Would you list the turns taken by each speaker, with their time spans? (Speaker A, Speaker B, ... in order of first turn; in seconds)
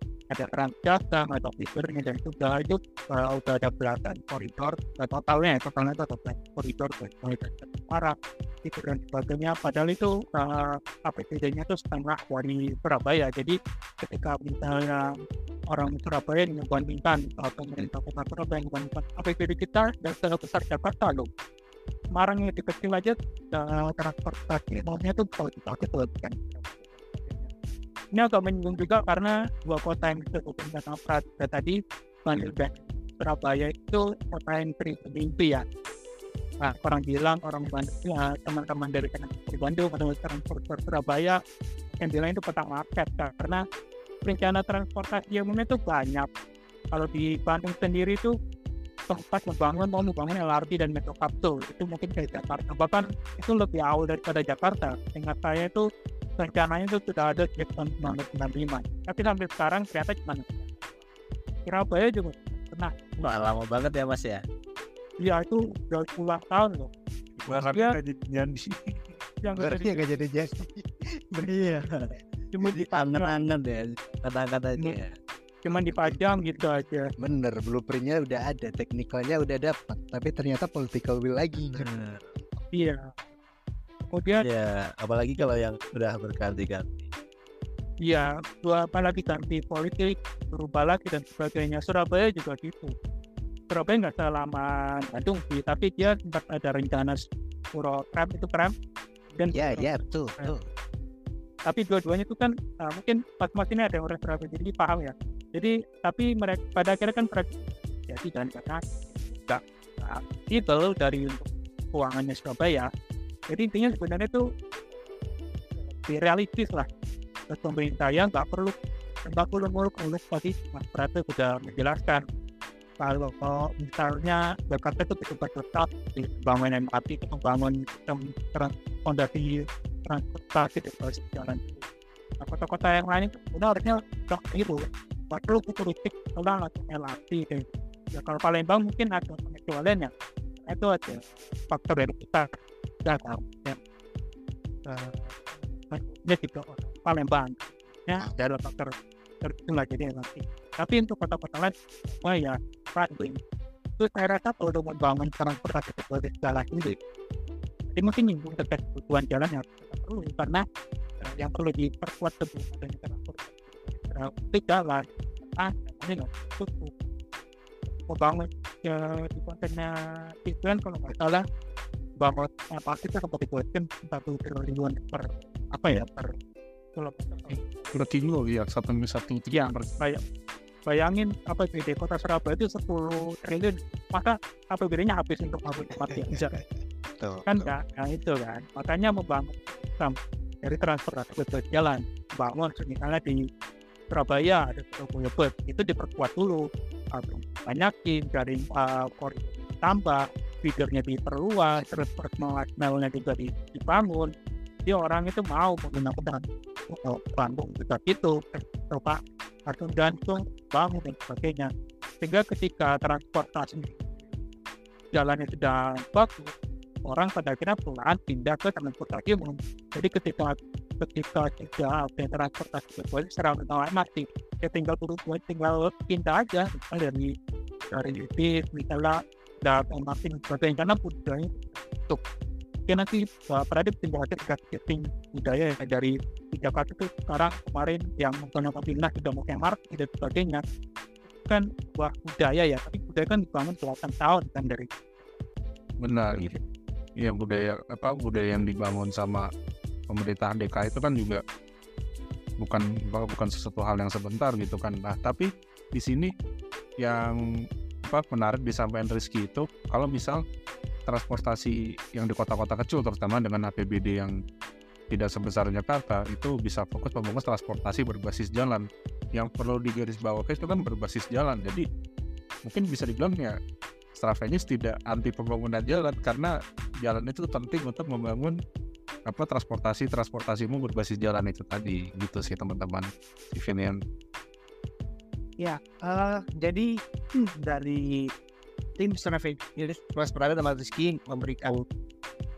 Speaker A: 0.3-15.2, 15.7-21.3, 22.1-27.5, 28.1-35.6, 36.6-41.4, 42.0-43.6, 44.2-46.3, 46.9-48.3, 49.1-55.9, 56.4-60.7, 61.6-63.0, 65.2-66.9, 67.7-68.0, 69.4-70.1, 72.6-73.3, 75.6-77.1, 82.7-83.1, 84.1-84.4, 88.0-92.9, 93.7-98.7, 99.3-100.5, 101.7-112.9, 113.5-114.4, 115.8-116.9, 117.5-122.2, 123.0-131.8, 132.4-140.1, 140.7-143.8, 144.8-153.4, 154.0-156.9, 157.9-160.6, 161.2-166.9, 168.1-171.4, 172.2-176.3, 176.9-177.7, 179.5-180.2, 180.8-186.6, 187.4-193.4, 194.1-204.3, 204.8-214.0, 215.1-216.5, 217.0-227.3, 227.9-232.2, 232.9-240.6, 241.4-244.9
Speaker B: 63.2-64.4, 69.7-70.2, 71.3-75.1, 81.7-82.3, 84.4-87.1
Speaker C: 67.4-68.8, 177.9-180.0, 246.0-246.5, 247.2-249.5, 250.1-251.4, 252.6-256.3, 257.0-257.4, 258.0-260.4, 261.1-264.4, 265.1-271.8, 272.6-273.6, 274.1-278.6, 279.2-284.0
Speaker D: 70.0-71.0, 77.2-81.9, 99.5-100.7, 185.9-187.7
Speaker E: 285.6-288.3, 289.0-291.8